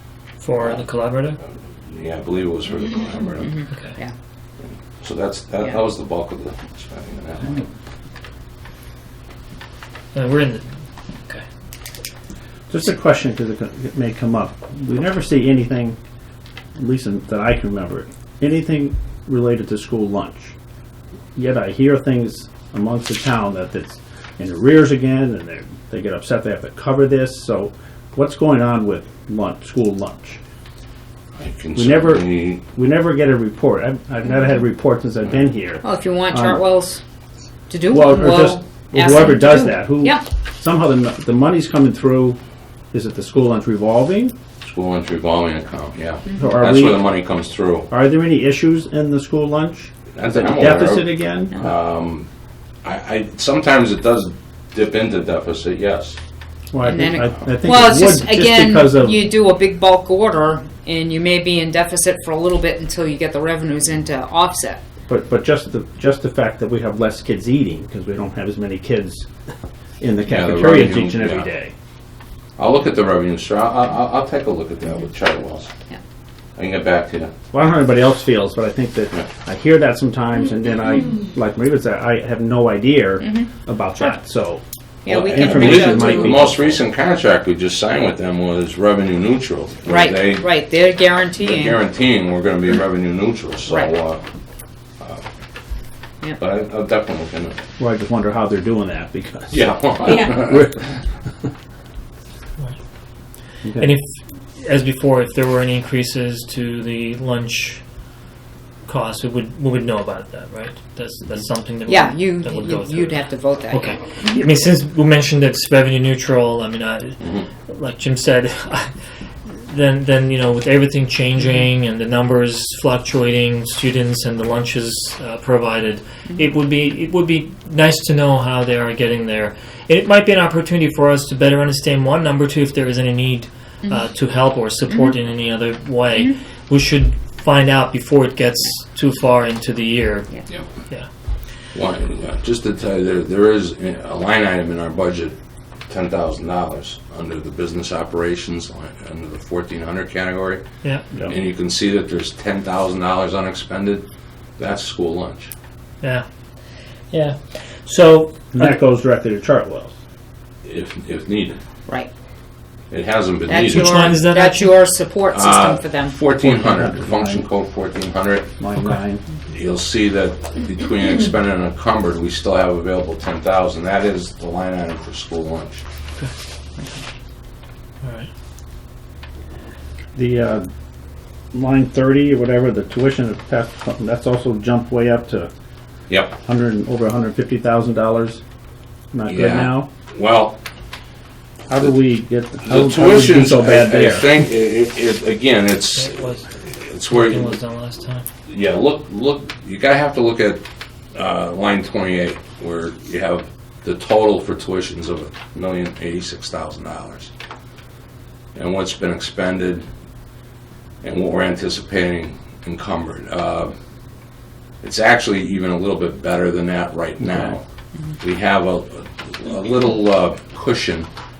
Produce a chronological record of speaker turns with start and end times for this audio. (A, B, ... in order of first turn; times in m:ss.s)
0:00.4-0:01.4 A
0:01.8-0:03.6 B
0:03.4-0:04.1 C
0:05.0-0:07.6 B
0:10.1-0:10.7 A
0:12.7-0:16.0 D
0:16.8-0:20.5 D
0:21.4-0:30.4 D
0:31.3-0:32.6 B
0:31.7-0:36.6 D
0:35.8-0:37.0 C
0:37.7-0:40.2 C
0:37.9-0:42.4 D
0:42.9-0:44.3 D
0:44.6-0:47.9 B
0:46.4-0:47.1 D
0:47.9-0:51.6 D
0:50.1-0:52.3 B
0:52.8-0:56.2 B
0:56.7-0:59.2 D
0:56.8-1:04.8 C
1:05.1-1:09.3 D
1:10.0-1:11.7 D
1:10.3-1:11.5 B
1:12.6-1:15.7 B
1:16.6-1:17.3 B
1:17.5-1:26.8 D
1:23.2-1:24.1 C
1:25.0-1:26.5 C
1:25.1-1:30.5 B
1:29.9-1:31.8 C
1:31.4-1:34.2 B
1:35.0-1:35.2 B
1:36.4-1:37.6 B
1:37.8-1:40.8 D
1:39.5-1:40.9 B
1:40.0-1:40.3 C
1:43.6-1:43.9 D
1:43.8-1:47.8 A
1:48.8-1:58.9 A
1:51.8-1:54.4 C
1:57.2-1:57.5 B
1:59.5-2:21.1 A
2:14.9-2:15.1 C
2:21.7-2:25.4 B
2:25.9-2:30.6 B
2:31.3-2:34.0 B
2:34.6-2:35.5 B
2:37.1-2:38.7 A
2:38.5-2:39.9 D
2:40.6-2:41.6 B
2:42.9-2:44.2 B
2:43.5-2:46.2 C
2:43.5-2:44.7 A
2:45.3-2:48.5 B
2:46.4-2:47.5 D
2:48.6-2:49.2 D
2:49.5-2:55.8 B
2:58.0-2:58.3 A
3:00.1-3:00.7 D
3:01.5-3:05.5 D
3:06.1-3:06.4 B
3:06.4-3:08.4 D
3:09.1-3:09.9 D
3:09.3-3:10.6 B
3:11.7-3:14.4 D
3:12.6-3:16.2 B
3:16.0-3:18.2 A
3:16.7-3:17.6 B
3:18.5-3:27.3 B
3:28.5-3:29.8 B
3:31.0-3:33.7 B
3:34.8-3:37.6 B
3:38.2-3:41.1 B